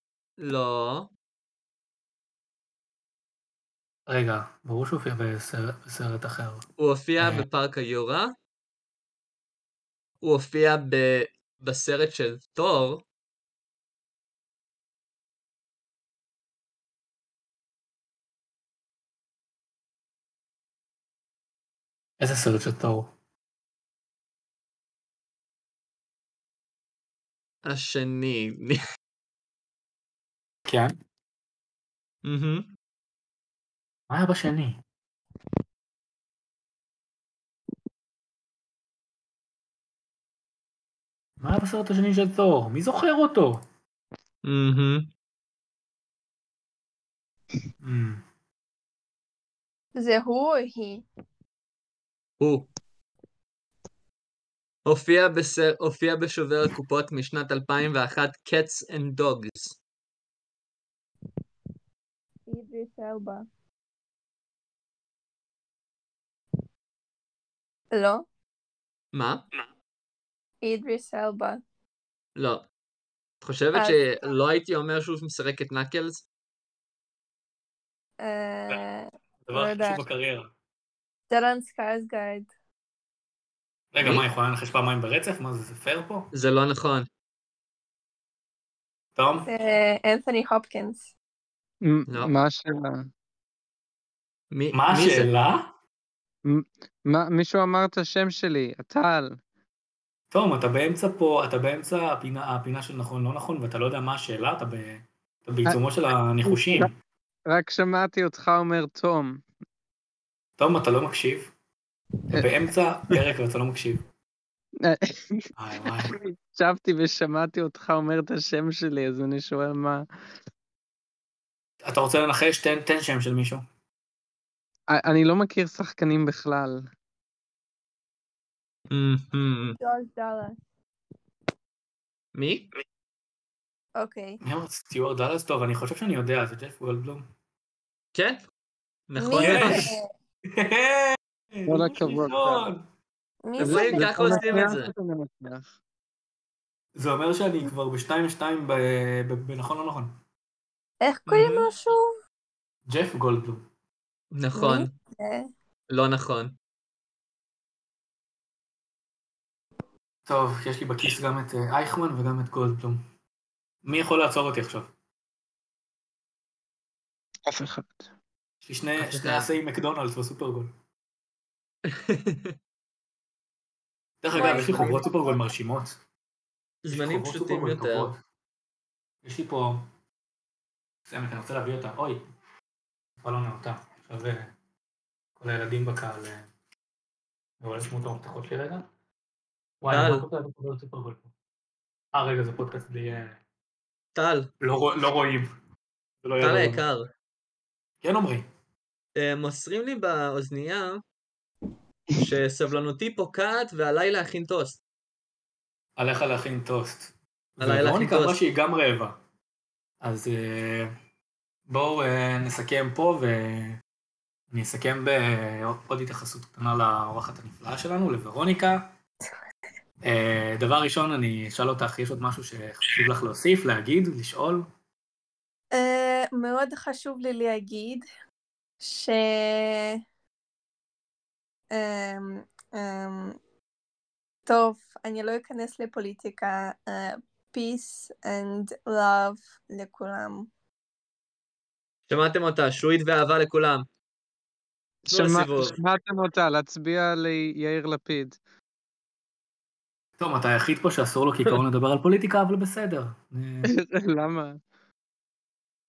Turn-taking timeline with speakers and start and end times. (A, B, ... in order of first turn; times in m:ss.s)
0:00.4-0:01.1 A
0:04.1-0:06.6 B
0:06.8-0:08.3 A
0:07.2-0:07.4 B
0:10.2-0:13.0 A
0:22.2-0:23.1 B
0:27.6-0:28.8 A
0:30.6-0:31.0 B
0:32.2-0:32.7 A
0:34.1-0:34.8 B
0:41.4-0:43.6 B
0:44.4-0:45.1 A
0:47.8-0:48.2 B
0:50.0-0:51.0 C
0:52.4-0:52.7 A
0:54.8-0:59.8 A
1:02.5-1:03.4 C
1:07.9-1:08.2 C
1:09.1-1:09.4 A
1:10.6-1:11.6 C
1:12.4-1:12.6 A
1:13.4-1:16.2 A
1:18.2-1:20.0 C
1:19.4-1:20.5 B
1:21.3-1:22.5 C
1:23.9-1:26.3 B
1:26.3-1:27.1 A
1:29.2-1:29.5 B
1:29.5-1:31.0 C
1:31.8-1:33.1 D
1:34.5-1:35.3 A
1:34.7-1:35.7 B
1:36.4-1:39.4 D
1:40.3-1:46.9 B
1:46.4-1:46.9 D
1:47.5-1:49.4 D
1:50.6-1:51.5 B
1:52.3-1:54.0 B
1:54.8-1:55.5 D
1:55.6-1:56.2 B
1:56.0-2:00.0 D
2:01.8-2:03.6 B
2:04.9-2:06.9 D
2:08.9-2:09.8 A
2:09.8-2:10.6 C
2:12.3-2:12.7 A
2:14.0-2:14.4 C
2:14.4-2:17.2 B
2:18.1-2:18.4 A
2:19.1-2:19.9 A
2:19.2-2:20.0 C
2:19.3-2:19.9 B
2:20.5-2:22.8 B
2:21.7-2:22.7 D
2:23.4-2:24.6 C
2:23.6-2:25.7 D
2:23.6-2:24.9 A
2:26.9-2:30.2 B
2:31.0-2:32.0 C
2:31.3-2:31.7 A
2:32.9-2:33.6 B
2:34.3-2:34.9 A
2:34.5-2:35.5 C
2:35.9-2:36.5 A
2:40.2-2:43.0 B
2:43.8-2:44.9 B
2:47.4-2:48.1 D
2:48.6-2:50.7 B
2:49.0-2:49.5 A
2:51.9-2:52.5 A
2:54.2-2:56.0 B
2:54.3-2:55.4 C
2:54.4-2:54.8 A
2:56.8-2:58.1 A
2:56.9-2:58.2 B
2:59.2-2:59.8 B
3:01.1-3:02.2 B
3:03.2-3:04.5 B
3:05.4-3:06.5 B
3:07.6-3:08.9 B
3:09.8-3:11.3 B
3:09.9-3:10.2 A
3:12.1-3:13.4 B
3:14.1-3:14.5 A
3:14.6-3:15.5 B
3:16.2-3:16.8 B
3:16.4-3:17.1 A
3:18.0-3:18.4 B
3:19.2-3:21.0 A
3:22.1-3:24.8 A
3:26.0-3:29.2 B
3:27.6-3:28.4 A
3:30.0-3:30.9 B
3:31.7-3:33.8 B
3:34.5-3:38.9 B
3:40.0-3:44.6 B
3:45.7-3:48.0 C
3:48.8-3:50.0 C
3:51.7-3:53.4 C
3:54.4-4:00.5 C
4:02.1-4:03.8 A
4:05.0-4:08.4 D
4:05.1-4:05.8 A
4:10.2-4:13.7 B
4:13.7-4:14.6 D